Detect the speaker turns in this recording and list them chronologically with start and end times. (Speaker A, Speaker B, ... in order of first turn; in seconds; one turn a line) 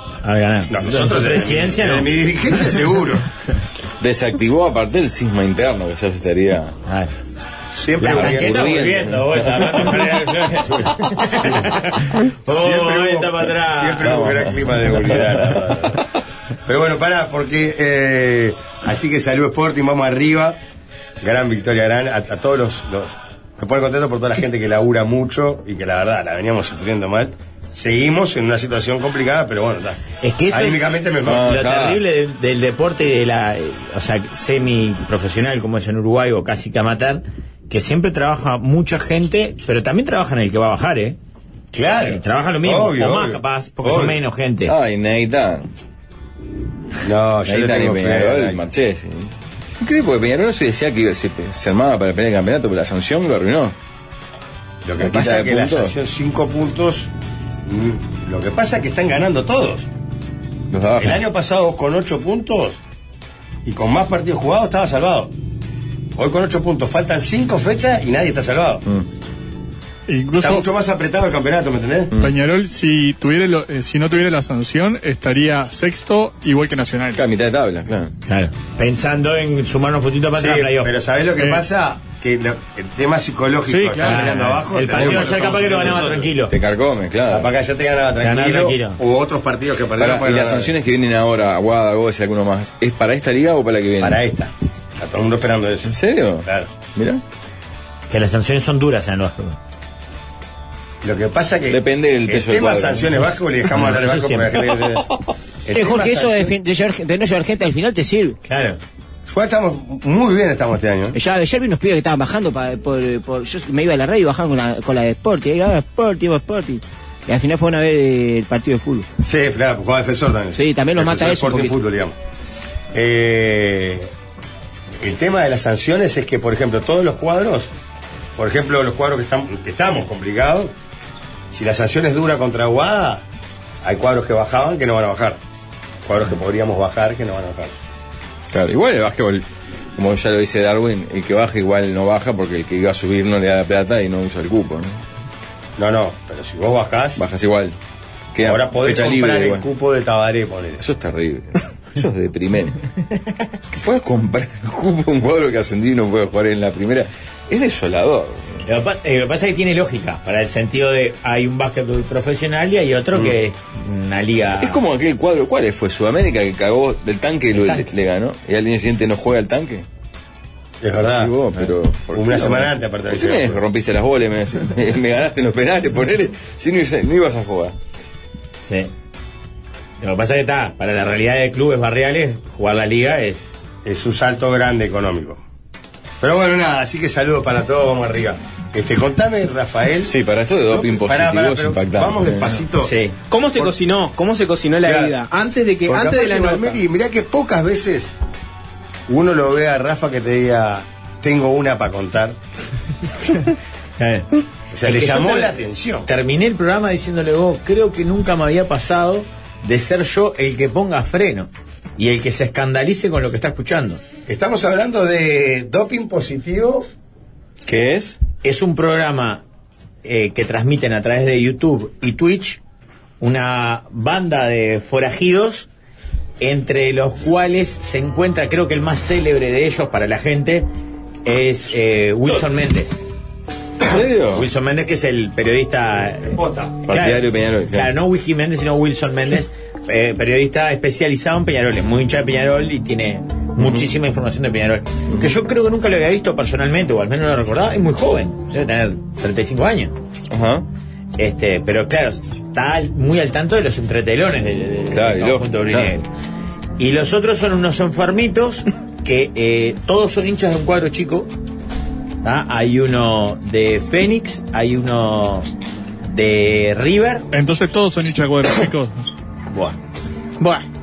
Speaker A: 0.2-2.1
Speaker B: 0.7-3.2
Speaker C: 4.0-6.7
Speaker B: 7.7-8.7
Speaker A: 8.0-14.3
Speaker C: 8.1-10.1
Speaker B: 10.8-11.7
Speaker B: 12.4-16.0
Speaker C: 14.0-15.2
Speaker B: 16.6-20.6
Speaker B: 21.2-31.5
Speaker A: 30.2-41.2
Speaker C: 31.2-32.0
Speaker B: 41.7-44.2
Speaker A: 42.0-44.7
Speaker C: 44.6-45.7
Speaker B: 47.0-48.6
Speaker C: 47.5-53.7
Speaker B: 54.8-57.1
Speaker C: 55.0-55.9
Speaker B: 57.6-59.9
Speaker C: 60.7-61.2
Speaker B: 61.0-62.8
Speaker B: 63.6-65.3
Speaker B: 66.2-68.8
Speaker D: 70.1-70.7
Speaker B: 70.4-72.1
Speaker D: 72.2-77.2
Speaker C: 77.2-78.1
Speaker A: 78.3-80.9
Speaker B: 80.3-86.3
Speaker D: 81.4-81.6
Speaker D: 83.7-84.4
Speaker A: 84.0-86.5
Speaker C: 84.9-85.7
Speaker C: 86.5-87.5
Speaker B: 87.3-90.7
Speaker A: 88.2-89.0
Speaker C: 90.0-94.2
Speaker B: 94.0-95.9
Speaker C: 95.9-97.2
Speaker A: 98.1-99.6
Speaker B: 101.0-105.0
Speaker C: 101.7-103.2
Speaker A: 103.7-104.5
Speaker B: 105.6-106.5
Speaker E: 105.7-108.4
Speaker A: 108.4-108.8
Speaker B: 109.3-111.2
Speaker E: 111.1-119.1
Speaker B: 119.2-122.2
Speaker E: 120.5-121.8
Speaker B: 122.9-124.1
Speaker B: 125.0-127.7
Speaker B: 128.4-130.7
Speaker B: 131.5-133.2
Speaker B: 133.8-135.4
Speaker B: 136.1-137.8
Speaker C: 138.5-139.4
Speaker C: 139.9-145.0
Speaker B: 145.8-147.2
Speaker C: 147.2-147.7
Speaker C: 148.3-149.6
Speaker B: 148.4-150.8
Speaker C: 150.8-152.8
Speaker C: 153.8-158.6
Speaker A: 158.6-164.8
Speaker C: 164.6-169.8
Speaker A: 167.5-167.9
Speaker B: 170.8-171.3
Speaker C: 171.0-177.7
Speaker B: 172.1-173.6
Speaker A: 178.6-178.9
Speaker A: 180.0-183.5
Speaker B: 183.8-185.4
Speaker B: 186.2-190.1
Speaker C: 190.0-192.6
Speaker B: 190.7-192.9
Speaker A: 192.8-193.2
Speaker F: 193.3-196.8
Speaker B: 194.8-195.1
Speaker B: 195.8-198.1
Speaker B: 199.1-202.4
Speaker A: 204.0-204.3
Speaker B: 204.7-206.1
Speaker A: 204.8-214.0
Speaker B: 214.3-216.8
Speaker C: 217.7-218.2
Speaker A: 218.4-219.4
Speaker A: 220.0-222.6
Speaker A: 223.2-225.7
Speaker A: 226.4-230.7
Speaker A: 231.2-233.0
Speaker C: 233.8-234.4
Speaker A: 234.3-249.9
Speaker B: 236.3-236.8
Speaker C: 236.9-237.9
Speaker C: 243.6-243.9
Speaker C: 250.3-250.6
Speaker A: 251.2-256.1
Speaker C: 254.9-255.9
Speaker A: 256.8-261.3
Speaker A: 262.2-265.5
Speaker A: 266.1-267.2
Speaker D: 267.3-269.0
Speaker F: 270.4-270.6